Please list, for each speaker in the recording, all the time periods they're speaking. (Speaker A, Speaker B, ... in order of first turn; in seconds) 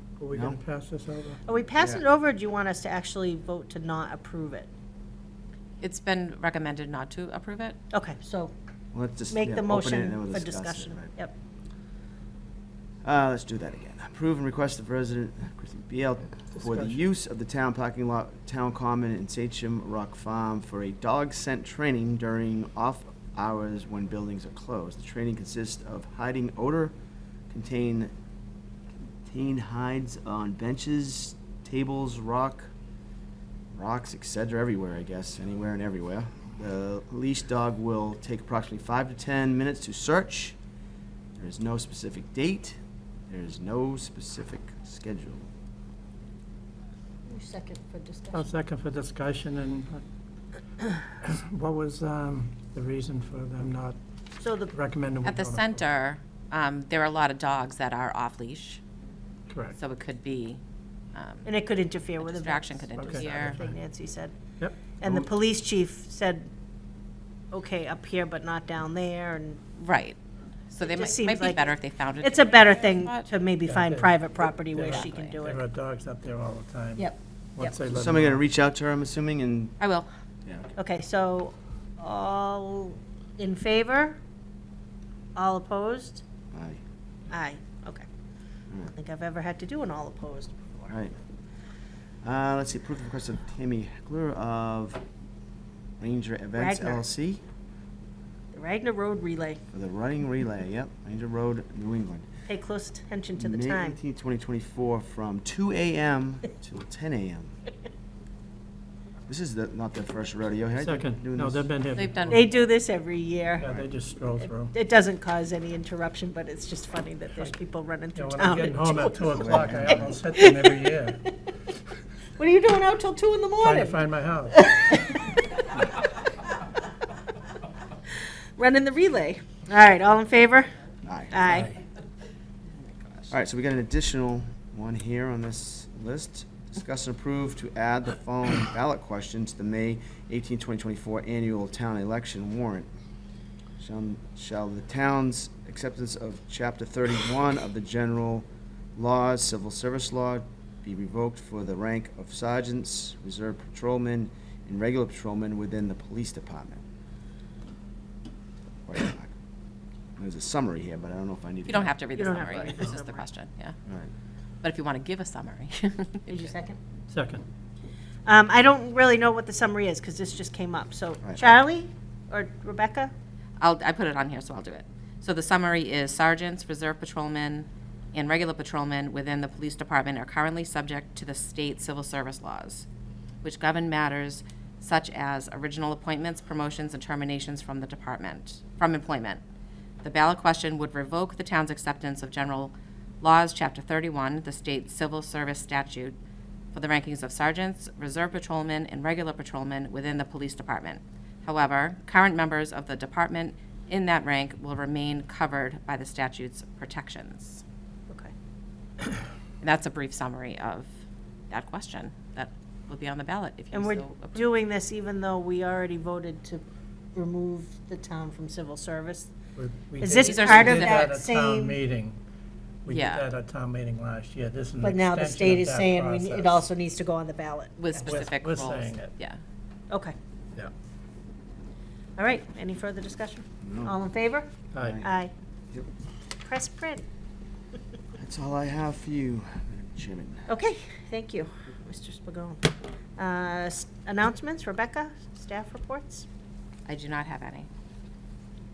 Speaker A: 0.2-1.4, 16.5-17.0, 48.3-50.0, 51.1-54.0, 54.7-55.8, 59.5-59.8, 63.0-63.7, 64.6-65.2, 73.7-74.2, 74.7-78.4, 110.7-112.5, 113.6-114.8, 118.2-121.2, 123.6-124.6, 167.1-167.4, 219.6-222.2, 222.8-226.7, 227.9-229.1, 234.7-235.0
Speaker B: 0.3-0.6, 1.8-2.0, 8.9-11.1, 13.0-26.9, 27.5-28.1, 29.2-32.7, 33.7-40.6, 41.4-42.8, 43.3-45.5, 77.9-79.7, 80.5-80.8, 86.5-86.8, 90.9-91.2, 92.2-95.0, 96.0-97.4, 99.7-102.3, 103.4-107.5, 109.3-111.7, 113.6-113.9, 119.2-120.2, 131.0-131.7, 133.3-142.9, 143.8-156.8, 158.9-159.3, 160.2-161.9, 163.9-164.1, 171.2-171.5, 233.6-233.9, 234.8-235.1, 238.2-240.5
Speaker C: 1.5-4.7, 7.9-8.5, 9.3-11.3, 47.3-48.5, 54.4-54.7, 61.5-64.3, 64.9-66.5, 67.5-69.6, 70.8-75.7, 77.0-77.8, 80.8-84.2, 85.4-86.2, 87.3-88.1, 88.9-90.9, 96.6-97.0, 98.5-99.6, 102.5-104.0, 112.3-113.7, 114.4-119.8, 120.3-121.3, 122.4-124.0, 124.5-125.6, 128.6-130.7, 131.3-131.8, 162.1-163.3, 166.3-166.8, 168.3-173.1, 213.7-219.3, 220.0-221.8, 224.8-228.2, 232.2-234.5, 235.0-235.3, 236.4-237.0, 240.5-246.3
Speaker D: 5.8-7.8, 55.2-58.8, 59.8-60.6, 61.1-61.5, 62.2-63.6, 69.8-70.2, 70.7-73.3, 74.9-75.3, 79.8-80.1, 112.0-112.7, 132.8-133.3, 161.7-163.8, 164.6-166.5, 173.6-182.9, 183.4-189.4, 190.0-196.2, 196.7-207.6, 209.6-210.9, 211.5-214.5, 220.2-221.1, 222.9-223.2, 227.8-229.4, 246.9-247.7